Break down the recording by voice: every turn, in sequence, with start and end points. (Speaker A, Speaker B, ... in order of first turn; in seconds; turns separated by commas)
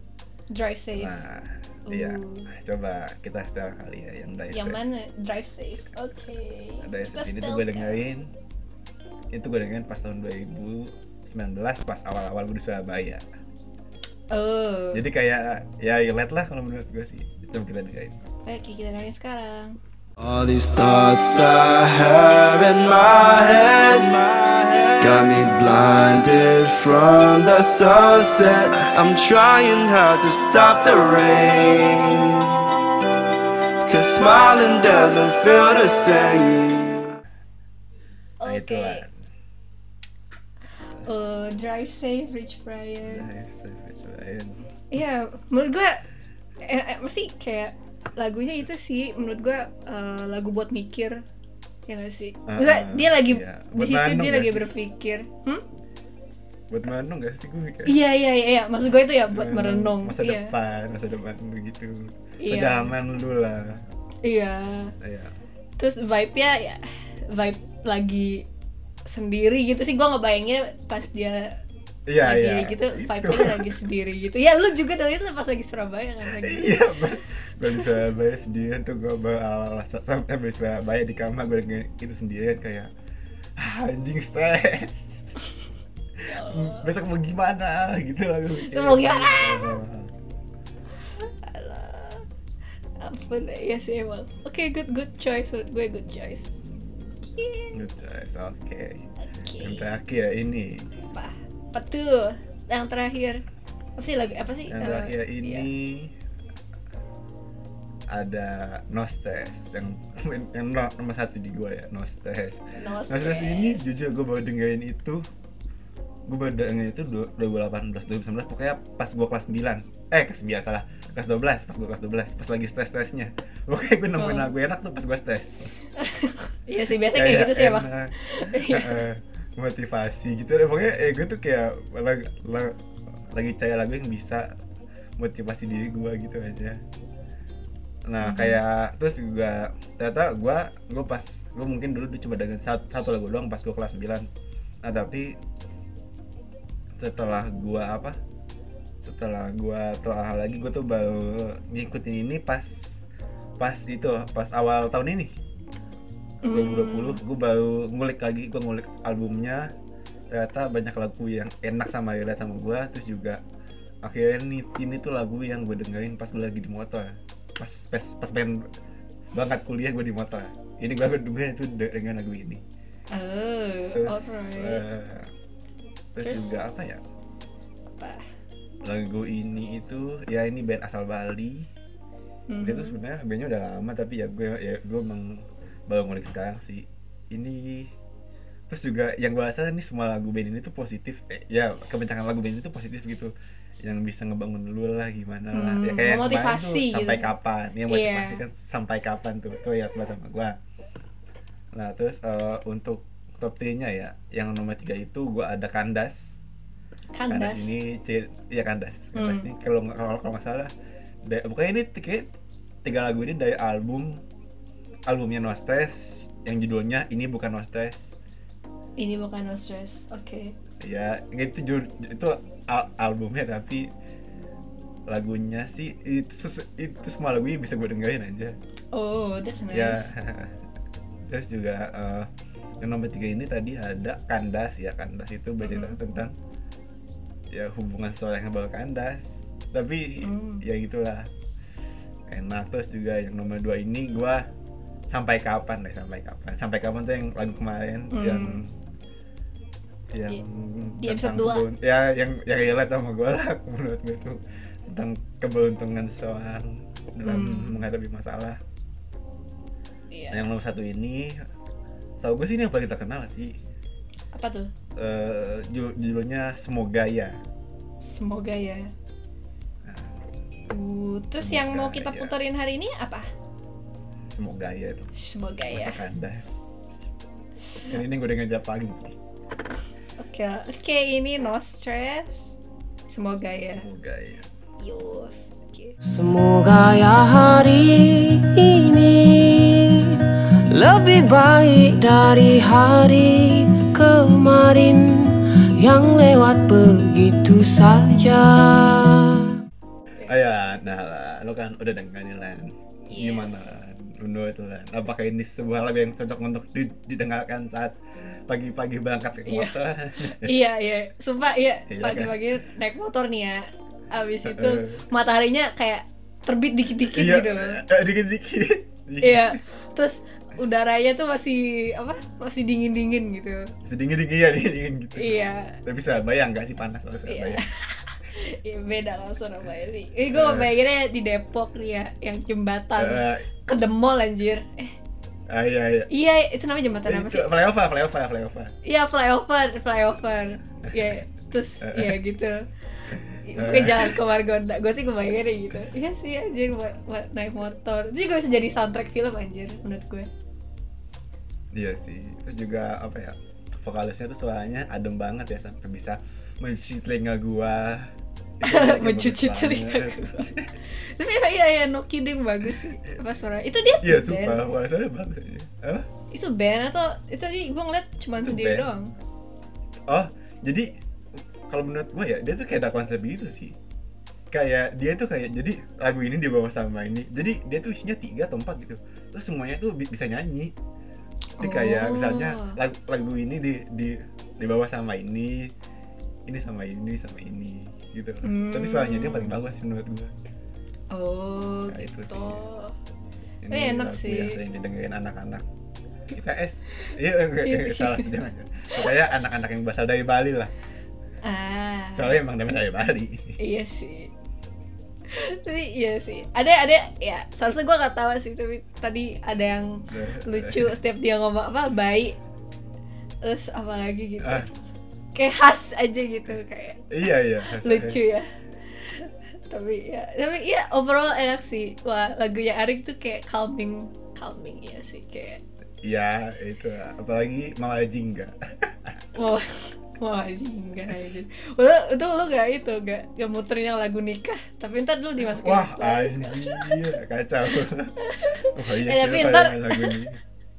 Speaker A: 0.5-1.1, Speaker B: 1.0-4.8, Speaker A: 1.9-2.5, Speaker A: 4.5-8.0, Speaker B: 6.8-8.3, Speaker B: 9.3-13.2, Speaker A: 14.3-15.0, Speaker B: 14.9-18.1, Speaker A: 18.4-19.8, Speaker C: 20.2-32.5, Speaker C: 33.9-37.1, Speaker A: 38.4-39.0, Speaker B: 38.5-39.1, Speaker A: 41.0-43.3, Speaker B: 43.0-44.6, Speaker A: 44.9-46.0, Speaker A: 46.7-51.2, Speaker A: 51.9-55.6, Speaker B: 52.5-54.7, Speaker B: 56.7-58.0, Speaker A: 57.9-60.5, Speaker B: 59.3-63.8, Speaker A: 62.4-63.0, Speaker A: 64.2-64.9, Speaker B: 65.0-65.3, Speaker A: 65.8-66.8, Speaker A: 67.3-68.4, Speaker A: 69.1-71.5, Speaker B: 72.1-73.8, Speaker A: 72.2-76.8, Speaker B: 76.2-82.9, Speaker A: 77.7-78.0, Speaker B: 83.6-85.4, Speaker A: 86.2-86.9, Speaker B: 86.3-90.2, Speaker A: 88.7-89.8, Speaker A: 91.2-92.2, Speaker A: 93.0-96.5, Speaker A: 97.2-97.7, Speaker B: 97.7-100.8, Speaker A: 99.2-99.9, Speaker A: 101.1-103.4, Speaker A: 104.0-105.7, Speaker B: 104.7-106.1, Speaker B: 108.1-115.2, Speaker A: 112.8-113.9, Speaker B: 116.3-125.7, Speaker A: 124.2-124.5, Speaker A: 126.0-129.0, Speaker B: 127.1-132.8, Speaker B: 133.3-134.5, Speaker B: 135.2-136.8, Speaker B: 138.1-144.3, Speaker A: 138.2-138.6, Speaker B: 144.8-145.3, Speaker B: 147.0-148.2, Speaker B: 149.0-153.0, Speaker B: 153.6-155.3, Speaker A: 156.4-157.2, Speaker B: 156.5-159.7, Speaker B: 160.3-163.4, Speaker B: 164.1-168.6, Speaker B: 169.3-172.6, Speaker A: 173.1-174.8, Speaker B: 173.9-175.3, Speaker B: 176.2-177.0, Speaker A: 176.2-176.6, Speaker A: 178.0-178.3, Speaker B: 178.8-181.7, Speaker A: 182.5-183.0, Speaker B: 182.6-187.9, Speaker B: 188.7-193.3, Speaker B: 193.8-200.6, Speaker A: 195.5-197.3, Speaker A: 197.9-198.4, Speaker B: 201.8-206.4, Speaker A: 207.2-207.7, Speaker B: 207.3-210.7, Speaker A: 209.2-209.5, Speaker B: 211.3-212.3, Speaker B: 212.8-214.2, Speaker B: 215.1-218.2, Speaker A: 219.0-220.5, Speaker B: 220.8-223.9, Speaker B: 225.1-228.6, Speaker A: 228.9-230.1, Speaker B: 229.7-230.5, Speaker B: 231.3-232.3, Speaker B: 232.8-236.3, Speaker A: 235.6-236.0, Speaker B: 237.5-241.3, Speaker A: 240.2-240.6, Speaker B: 242.3-244.4, Speaker B: 245.1-248.7, Speaker A: 248.1-248.6, Speaker B: 250.1-258.6, Speaker A: 251.0-251.7, Speaker A: 257.2-257.8, Speaker A: 260.1-260.5, Speaker B: 260.3-261.3, Speaker B: 262.2-263.5, Speaker A: 264.3-264.7, Speaker B: 265.0-267.4, Speaker A: 268.0-268.9, Speaker B: 269.9-270.2, Speaker A: 270.7-273.3, Speaker B: 271.4-272.4, Speaker B: 274.3-276.6, Speaker A: 275.2-276.0, Speaker B: 277.8-279.2, Speaker A: 280.2-282.6, Speaker A: 283.1-283.9, Speaker B: 283.6-284.5, Speaker A: 284.8-286.0, Speaker D: 286.1-290.2, Speaker D: 290.7-299.5, Speaker B: 300.3-308.0, Speaker A: 303.1-303.7, Speaker B: 308.5-310.6, Speaker A: 309.5-309.8, Speaker A: 310.3-317.8, Speaker B: 311.9-312.4, Speaker B: 314.5-315.1, Speaker B: 317.1-319.5, Speaker A: 319.2-323.7, Speaker B: 323.9-327.6, Speaker A: 325.2-325.8, Speaker A: 327.3-334.9, Speaker B: 330.3-330.7, Speaker B: 333.0-333.5, Speaker B: 335.5-336.1, Speaker A: 336.1-337.5, Speaker B: 337.1-338.7, Speaker A: 338.9-342.7, Speaker B: 341.8-342.2, Speaker B: 343.2-344.2, Speaker A: 343.5-350.3, Speaker B: 351.8-358.1, Speaker B: 358.6-360.7, Speaker A: 358.6-364.6, Speaker B: 364.0-366.1, Speaker A: 366.3-369.1, Speaker B: 368.4-368.9, Speaker B: 370.1-370.9, Speaker B: 371.7-373.8, Speaker B: 374.5-380.7, Speaker A: 381.6-382.8, Speaker B: 381.6-385.7, Speaker B: 386.5-390.3, Speaker A: 388.4-389.6, Speaker A: 391.1-392.9, Speaker B: 391.9-392.6, Speaker B: 393.6-395.6, Speaker A: 393.7-394.6, Speaker B: 396.3-400.7, Speaker A: 397.0-398.3, Speaker A: 401.4-402.3, Speaker B: 402.1-403.5, Speaker A: 403.6-404.3, Speaker A: 405.3-412.4, Speaker B: 410.1-410.9, Speaker A: 413.4-417.1, Speaker B: 414.4-414.7, Speaker B: 417.1-418.2, Speaker A: 417.6-418.5, Speaker A: 419.0-425.6, Speaker B: 426.0-429.1, Speaker A: 429.4-437.0, Speaker B: 435.5-438.1, Speaker A: 438.2-440.2, Speaker B: 438.6-440.4